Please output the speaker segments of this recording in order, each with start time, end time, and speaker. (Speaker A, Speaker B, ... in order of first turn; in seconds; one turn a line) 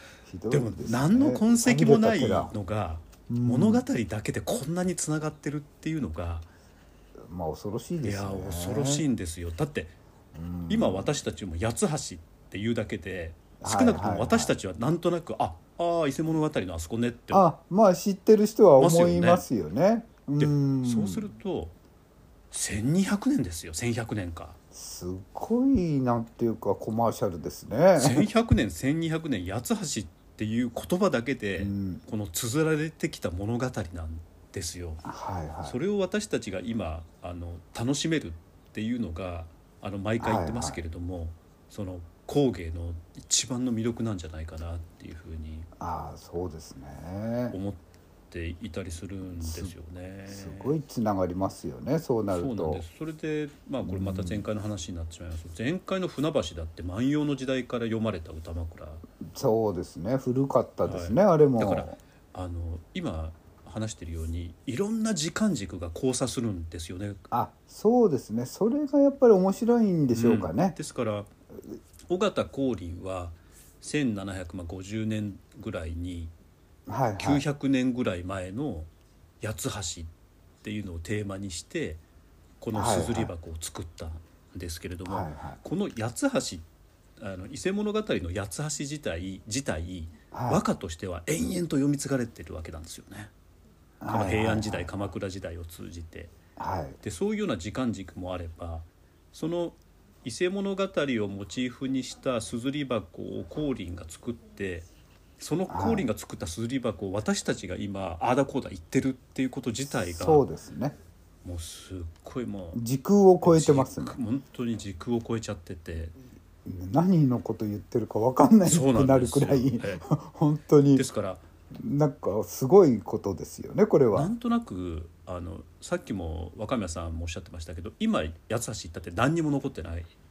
Speaker A: 0.3-2.5
Speaker B: 0.5-6.5
Speaker A: 3.3-3.8
Speaker A: 7.2-9.0
Speaker B: 8.0-9.9
Speaker A: 10.3-11.1
Speaker B: 10.7-17.4
Speaker A: 13.6-14.5
Speaker A: 17.3-21.3
Speaker B: 18.8-19.4
Speaker B: 20.4-21.7
Speaker B: 22.5-24.6
Speaker A: 24.7-28.2
Speaker B: 28.0-35.0
Speaker A: 31.6-32.0
Speaker A: 35.0-35.8
Speaker B: 35.6-45.7
Speaker A: 40.2-40.8
Speaker A: 45.8-47.5
Speaker B: 47.5-50.8
Speaker A: 49.4-49.7
Speaker A: 50.3-52.8
Speaker B: 52.3-59.0
Speaker A: 53.9-54.4
Speaker A: 59.3-62.0
Speaker B: 60.9-67.2
Speaker A: 67.3-70.8
Speaker B: 70.1-71.3
Speaker B: 72.1-76.3
Speaker A: 76.9-77.4
Speaker B: 77.2-78.9
Speaker B: 79.4-80.1
Speaker B: 80.6-82.0
Speaker B: 82.6-86.6
Speaker A: 82.7-83.3
Speaker A: 85.1-85.6
Speaker B: 87.2-93.3
Speaker A: 90.3-90.6
Speaker A: 94.0-94.9
Speaker B: 94.1-96.3
Speaker A: 96.6-97.0
Speaker B: 97.0-104.9
Speaker B: 105.4-110.4
Speaker A: 105.7-106.0
Speaker A: 109.9-111.0
Speaker B: 111.4-112.8
Speaker A: 112.7-114.2
Speaker B: 113.4-116.1
Speaker A: 116.6-121.0
Speaker B: 118.6-120.0
Speaker B: 120.9-121.4
Speaker A: 121.7-124.3
Speaker B: 124.1-130.1